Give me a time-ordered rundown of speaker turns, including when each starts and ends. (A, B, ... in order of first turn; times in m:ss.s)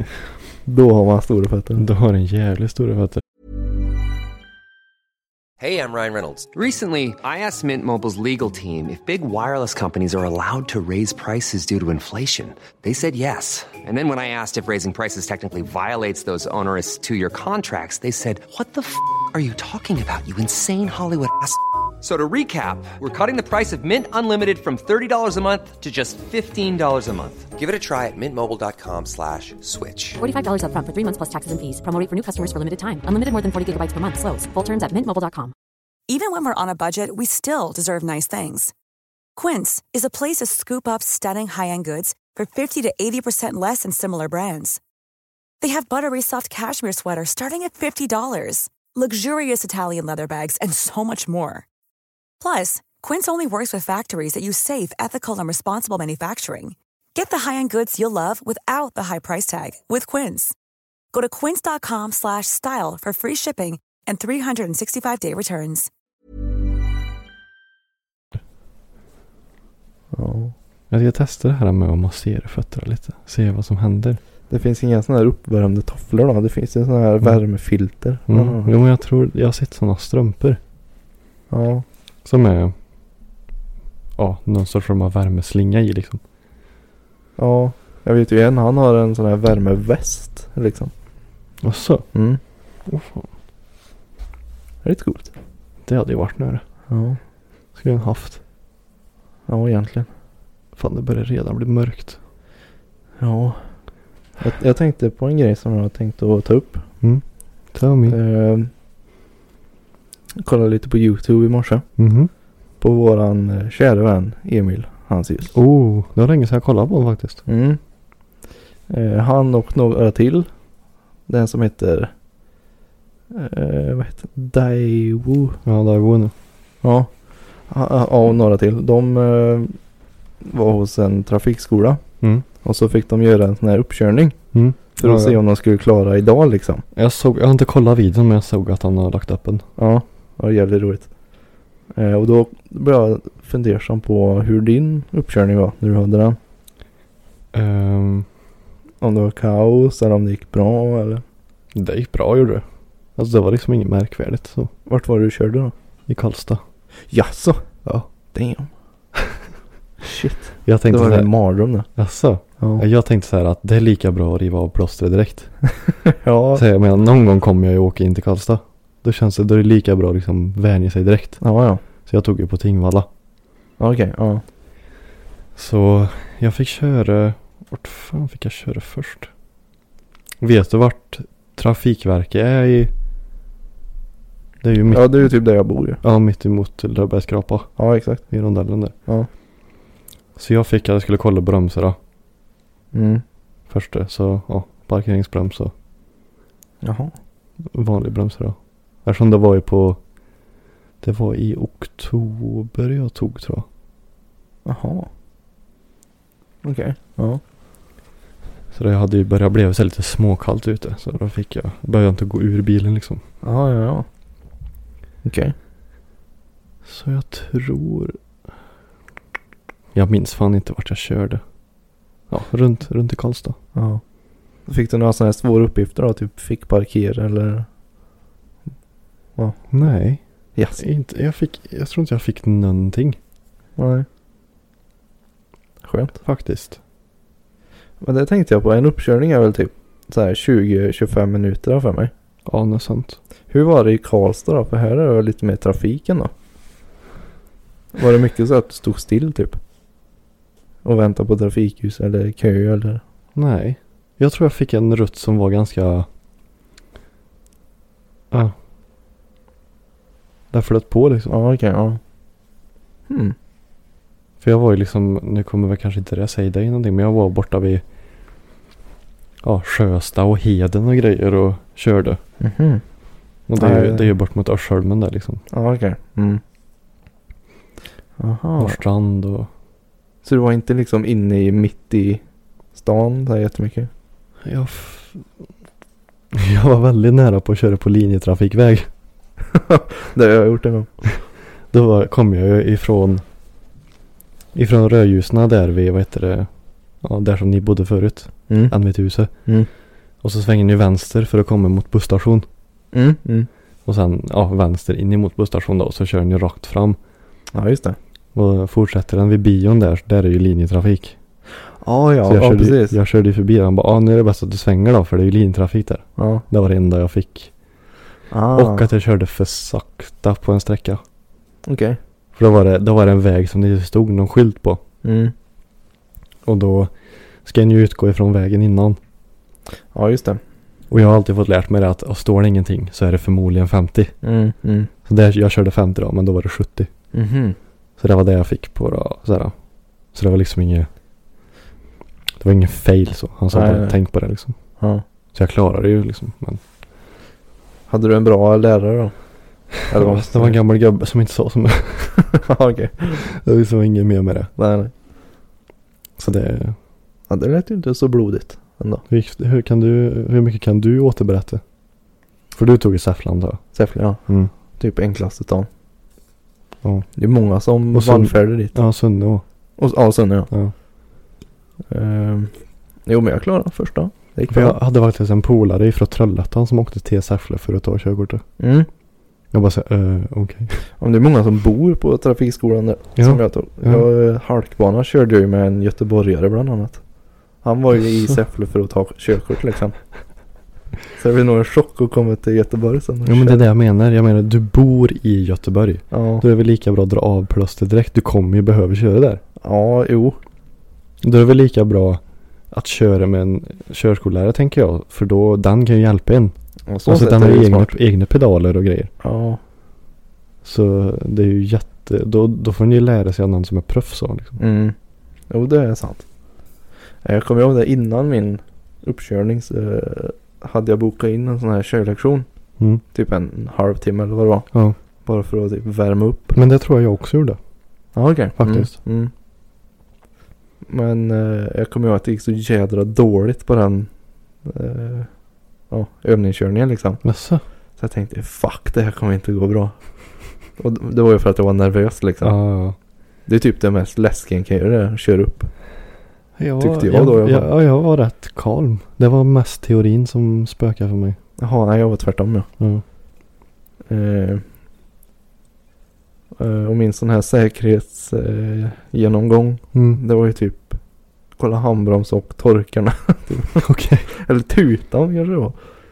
0:00.7-0:01.8 A
0:01.8-0:03.2 B
0:05.6-0:30.2 C
0:30.2-0:35.5 D
0:36.1-0:38.7 E
0:39.4-0:44.8 E
0:45.6-0:51.6 E
0:52.4-1:00.6 E
1:01.1-1:05.9 E
1:10.1-1:10.5 A
1:10.9-1:14.2 B
1:14.5-1:18.7 A
1:18.3-1:20.6 B
1:21.5-1:21.8 A
1:22.2-1:22.7 B
1:24.2-1:26.2 B
1:27.4-1:30.9 A
1:31.6-1:32.1 B
1:32.1-1:32.4 A
1:32.9-1:33.3 B
1:34.8-1:35.3 A
1:35.8-1:36.6 B
1:36.9-1:37.2 A
1:37.8-1:38.4 B
1:39.5-1:40.1 A
1:40.8-1:42.2 B
1:43.2-1:43.6 A
1:44.4-1:46.9 A
1:47.0-1:48.2 B
1:48.1-1:48.7 A
1:50.4-1:51.9 A
1:52.0-1:52.3 B
1:52.8-1:55.5 A
1:55.5-1:57.4 B
1:57.5-1:57.8 A
1:58.9-2:00.5 A
2:01.3-2:02.1 A
2:03.3-2:05.6 A
2:05.6-2:06.3 B
2:06.8-2:07.1 A
2:07.7-2:09.8 A
2:10.4-2:12.0 A
2:12.6-2:14.4 A
2:14.5-2:15.4 B
2:15.0-2:16.8 A
2:17.0-2:19.6 B
2:19.8-2:21.1 A
2:21.9-2:26.4 A
2:27.5-2:28.3 B
2:29.0-2:31.2 A
2:31.7-2:32.6 B
2:33.2-2:34.7 B
2:34.9-2:35.7 A
2:36.1-2:36.6 B
2:37.1-2:38.7 A
2:40.0-2:41.9 A
2:40.6-2:41.3 B
2:41.9-2:45.5 B
2:42.6-2:42.8 A
2:46.1-2:46.6 A
2:46.6-2:51.4 B
2:51.4-2:51.8 A
2:52.1-2:53.1 B
2:53.8-2:54.4 A
2:55.6-2:59.3 B
3:00.4-3:02.9 B
3:04.6-3:05.3 B
3:04.9-3:06.0 A
3:06.0-3:08.9 B
3:07.8-3:08.3 A
3:10.4-3:12.0 B
3:12.9-3:13.2 A
3:13.7-3:15.7 B
3:16.8-3:17.1 A
3:17.7-3:20.0 B
3:21.0-3:23.7 B
3:24.6-3:25.1 A
3:26.6-3:27.4 A
3:28.7-3:33.2 B
3:33.4-3:34.1 A
3:35.2-3:35.5 A
3:36.8-3:38.2 B
3:39.9-3:41.4 B
3:42.3-3:43.6 B
3:43.8-3:44.0 A
3:44.7-3:47.7 A
3:49.4-3:49.6 A
3:49.7-3:50.2 B
3:50.6-3:50.8 A
3:50.8-3:53.2 B
3:53.8-3:54.1 A
3:55.8-3:56.2 A
3:56.2-3:56.8 B
3:58.0-4:02.1 A
4:02.5-4:03.2 B
4:03.5-4:06.3 A
4:08.0-4:09.6 A
4:10.8-4:13.0 A
4:13.4-4:16.1 B
4:20.5-4:21.3 B
4:21.3-4:22.0 A
4:23.1-4:23.4 A
4:24.4-4:27.8 B
4:29.4-4:32.2 B
4:32.4-4:32.8 A
4:33.5-4:35.4 B
4:33.6-4:34.1 A
4:35.5-4:36.4 A
4:38.2-4:38.8 A
4:38.6-4:39.5 B
4:40.2-4:42.2 A
4:42.7-4:43.9 A
4:44.4-4:45.3 B
4:46.3-4:48.9 B
4:49.5-4:50.9 A
4:51.7-4:53.2 B
4:54.5-4:56.5 B
4:57.0-4:59.3 B
4:58.5-4:58.7 A
5:00.2-5:02.5 B
5:02.9-5:03.5 A
5:03.9-5:07.0 B
5:07.5-5:08.0 A
5:08.3-5:11.2 B
5:11.8-5:13.0 A
5:12.3-5:17.5 B
5:16.2-5:16.4 A
5:18.3-5:18.9 A
5:18.5-5:21.0 B
5:21.7-5:22.0 A
5:22.4-5:24.8 B
5:25.0-5:25.3 A
5:26.4-5:29.0 B
5:29.9-5:30.4 A
5:30.9-5:34.2 B
5:34.2-5:34.9 A
5:35.0-5:36.9 B
5:37.1-5:37.6 A
5:38.0-5:39.5 B
5:40.1-5:40.9 B
5:42.4-5:44.6 B
5:43.5-5:44.0 A
5:44.8-5:45.0 A
5:45.3-5:46.6 B
5:47.9-5:49.1 A
5:49.7-5:50.6 A
5:49.9-5:52.4 B
5:52.4-5:53.2 A
5:53.1-5:54.5 B
5:54.6-5:54.9 A
5:56.2-5:56.8 B
5:57.3-5:59.0 A
5:59.1-6:01.6 B
6:02.5-6:03.6 B
6:03.7-6:04.2 A
6:04.8-6:05.7 A
6:06.8-6:07.1 B
6:07.2-6:08.8 A
6:07.9-6:09.4 B
6:09.8-6:10.5 A
6:11.9-6:12.5 A
6:13.1-6:14.8 A
6:14.5-6:18.4 B
6:18.6-6:18.9 A
6:19.5-6:20.8 B
6:21.0-6:27.0 A
6:23.2-6:24.0 B
6:27.6-6:30.0 A
6:31.2-6:33.6 A
6:33.2-6:39.4 B
6:36.1-6:36.4 A
6:39.6-6:40.4 A
6:41.2-6:46.5 B
6:46.9-6:47.9 A
6:47.0-6:49.1 B
6:49.2-6:49.6 A
6:50.6-6:54.6 B
6:54.6-6:55.0 A
6:55.5-6:56.3 A
6:57.2-7:02.5 A
7:03.1-7:04.7 A
7:05.2-7:06.6 A
7:06.6-7:07.6 B
7:08.1-7:09.3 A
7:08.6-7:08.9 B
7:10.9-7:14.1 A
7:14.6-7:15.3 A
7:15.9-7:17.2 A
7:17.2-7:17.6 B
7:18.0-7:20.0 A
7:20.8-7:22.6 A
7:22.4-7:23.0 B
7:23.5-7:25.7 A
7:26.6-7:31.4 B
7:26.8-7:27.7 A
7:31.6-7:32.7 A
7:32.8-7:33.0 B
7:34.1-7:34.6 A
7:36.6-7:41.0 A
7:39.9-7:40.2 B
7:41.6-7:45.8 A
7:43.8-7:44.3 B